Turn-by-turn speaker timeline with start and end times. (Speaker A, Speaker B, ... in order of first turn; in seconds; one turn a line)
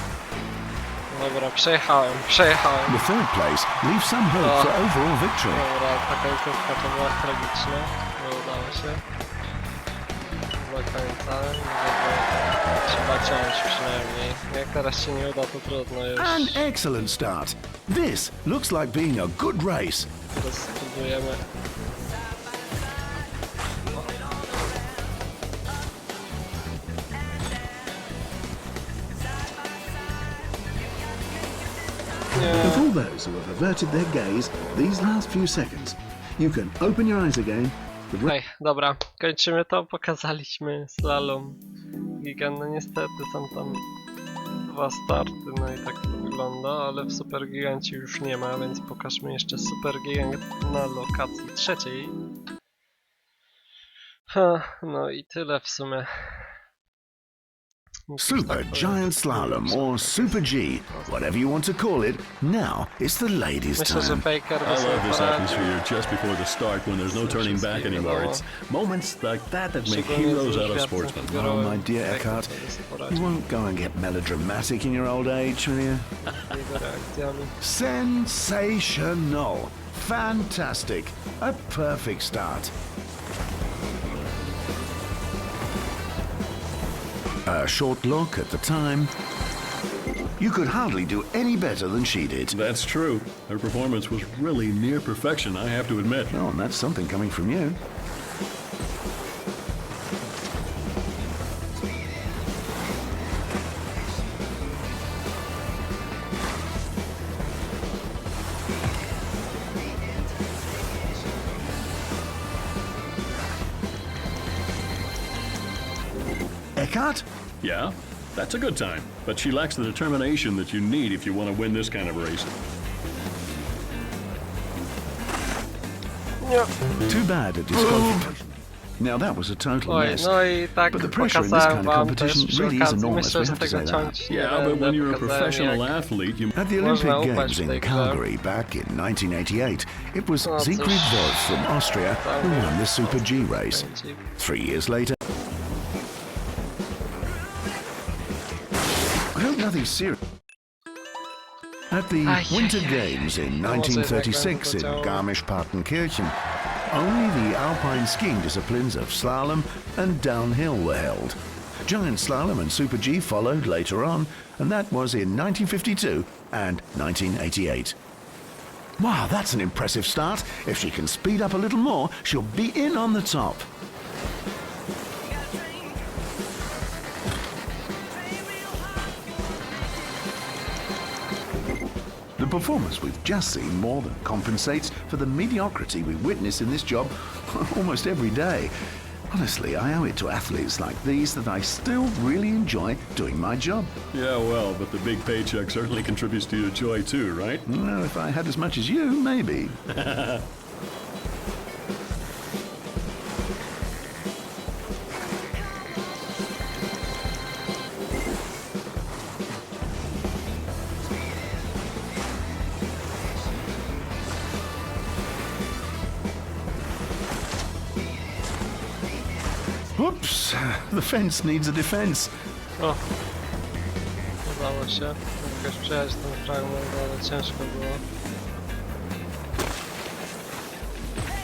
Speaker A: 1.1-3.0
Speaker B: 2.9-5.7
Speaker A: 4.4-4.7
Speaker A: 5.5-9.0
Speaker A: 10.6-16.7
Speaker B: 16.2-20.1
Speaker A: 20.3-21.5
Speaker A: 32.4-32.9
Speaker B: 32.6-38.4
Speaker A: 38.2-41.6
Speaker A: 42.2-43.8
Speaker A: 44.7-52.2
Speaker A: 54.3-56.5
Speaker A: 58.1-61.2
Speaker B: 58.2-64.3
Speaker A: 63.8-65.7
Speaker C: 64.6-71.3
Speaker A: 67.1-68.5
Speaker A: 69.8-73.4
Speaker B: 71.3-72.5
Speaker B: 73.1-76.2
Speaker A: 76.3-77.5
Speaker B: 77.6-82.7
Speaker B: 87.5-89.1
Speaker B: 90.4-92.6
Speaker C: 92.5-96.4
Speaker B: 96.3-97.8
Speaker B: 116.8-117.3
Speaker C: 117.6-122.6
Speaker A: 126.4-126.7
Speaker B: 127.1-134.1
Speaker A: 129.9-135.9
Speaker C: 134.3-136.5
Speaker B: 136.6-145.2
Speaker A: 136.8-138.2
Speaker A: 140.4-141.4
Speaker A: 142.2-144.3
Speaker B: 149.3-150.2
Speaker B: 151.9-156.4
Speaker A: 152.2-155.2
Speaker B: 156.9-168.0
Speaker B: 169.0-173.7
Speaker B: 182.4-188.7
Speaker B: 189.3-193.9
Speaker C: 194.1-197.7
Speaker B: 197.7-199.8
Speaker C: 199.9-200.5
Speaker B: 220.0-222.3
Speaker A: 222.8-223.0
Speaker A: 224.4-228.0